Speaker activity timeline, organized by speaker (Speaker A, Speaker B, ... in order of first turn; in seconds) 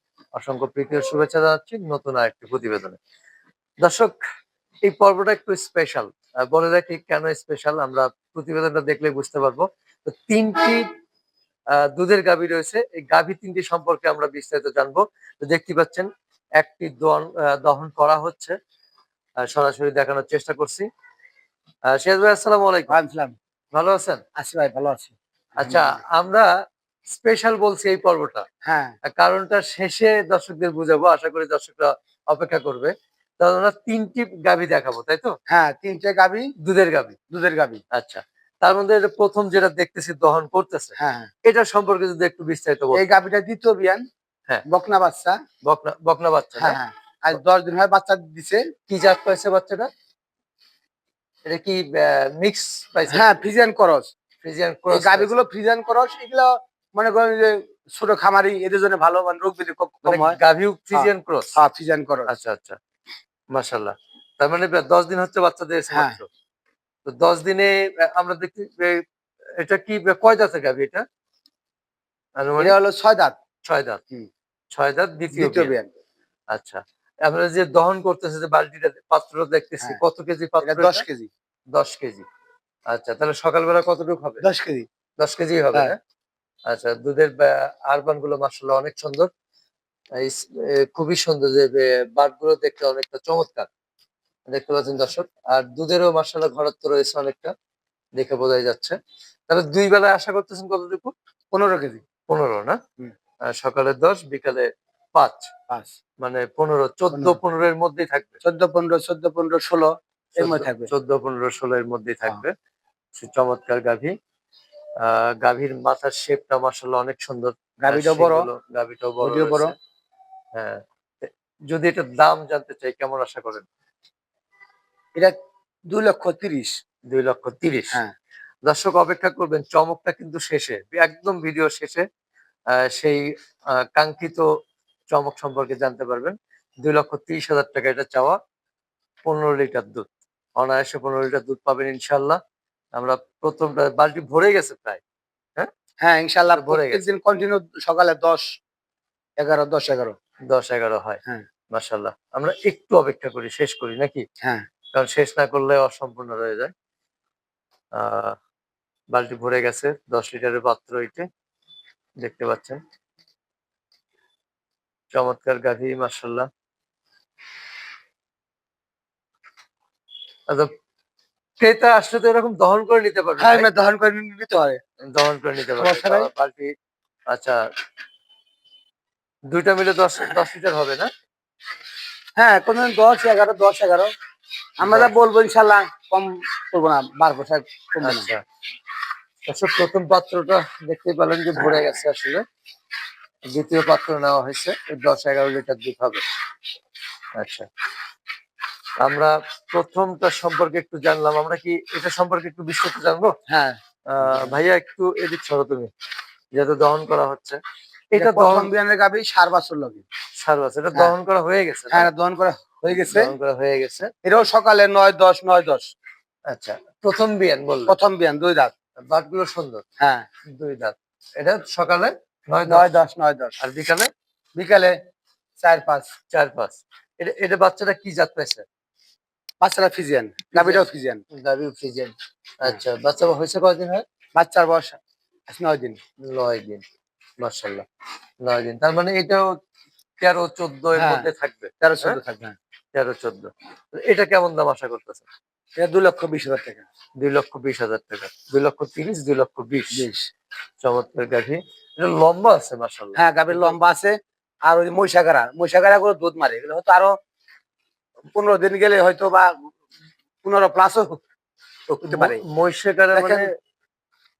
Speaker A: 0.3-3.0, 3.8-4.2, 4.8-10.9, 11.8-18.6, 19.4-20.9, 21.9-23.0, 23.7-24.2, 25.6-26.5, 27.1-28.4, 29.1-35.4, 36.6-37.2, 37.9-43.1, 45.6-46.8, 48.9-49.9, 51.5-53.4, 54.4-55.3, 60.0-61.6, 62.3-62.8, 63.5-66.2, 67.0-69.0, 69.5-71.0, 72.4-72.7, 73.7-74.0, 74.7-75.8, 76.5-81.0, 81.7-82.2, 82.9-84.4, 85.2-86.0, 86.7-89.3, 90.1-93.7, 94.5-97.5, 98.2-99.0, 99.5-101.1, 102.3-102.8, 103.5-105.5, 106.2-108.3, 110.3-112.5, 113.2-114.1, 115.0-119.7, 120.5-123.7, 127.1-128.0, 128.6-132.1, 132.7-133.2, 133.8-134.5, 135.1-138.4, 139.2-140.1, 140.6-142.4, 142.9-145.0, 146.5-147.1, 150.5-151.2, 151.7-154.2, 154.9-156.7, 157.9-158.4, 159.1-161.3, 162.2-162.8, 165.1-166.5, 171.6-173.7, 175.1-176.7, 177.3-177.6, 179.5-181.1, 184.8-185.1, 188.0-188.4, 189.5-192.4, 193.5-196.2, 197.4-197.7, 199.0-203.3, 204.1-205.9, 206.5-207.6, 208.1-208.7, 210.4-212.1, 213.1-214.1, 216.5-217.9, 219.0-219.8, 220.5-222.9, 223.6-224.1, 226.3-228.6, 230.5-234.0, 236.3-236.8, 237.4-237.8, 238.4-239.5, 240.2-242.2, 242.9-245.2, 247.2-250.1, 250.8-253.8, 262.0-263.5
Speaker B: 22.9-23.3, 24.4-26.0, 28.6-28.9, 35.5-36.5, 37.3-37.8, 41.0-41.3, 42.9-44.0, 44.6-45.4, 46.5-48.6, 53.1-54.1, 54.9-60.4, 60.9-62.3, 65.9-66.2, 72.6-73.3, 75.3-75.9, 80.6-81.3, 84.4-84.9, 101.5-102.0, 107.1-107.4, 108.4-110.9, 117.8-118.5, 119.2-119.7, 125.9-126.7, 146.0-148.4, 149.4-150.2, 173.4-174.8, 175.8-176.3, 182.4-184.1, 184.8-188.3, 203.5-204.6, 208.2-210.0, 211.9-213.3, 214.2-215.9, 217.9-218.7, 220.0-220.2, 222.6-223.6, 224.6-224.9, 225.6-226.1, 229.6-231.2, 234.3-235.0, 235.5-236.0, 240.9-241.3, 241.8-242.6, 245.8-246.8, 249.9-250.3, 253.2-257.1, 258.3-259.6, 260.4-261.2, 261.9-262.4, 263.1-263.5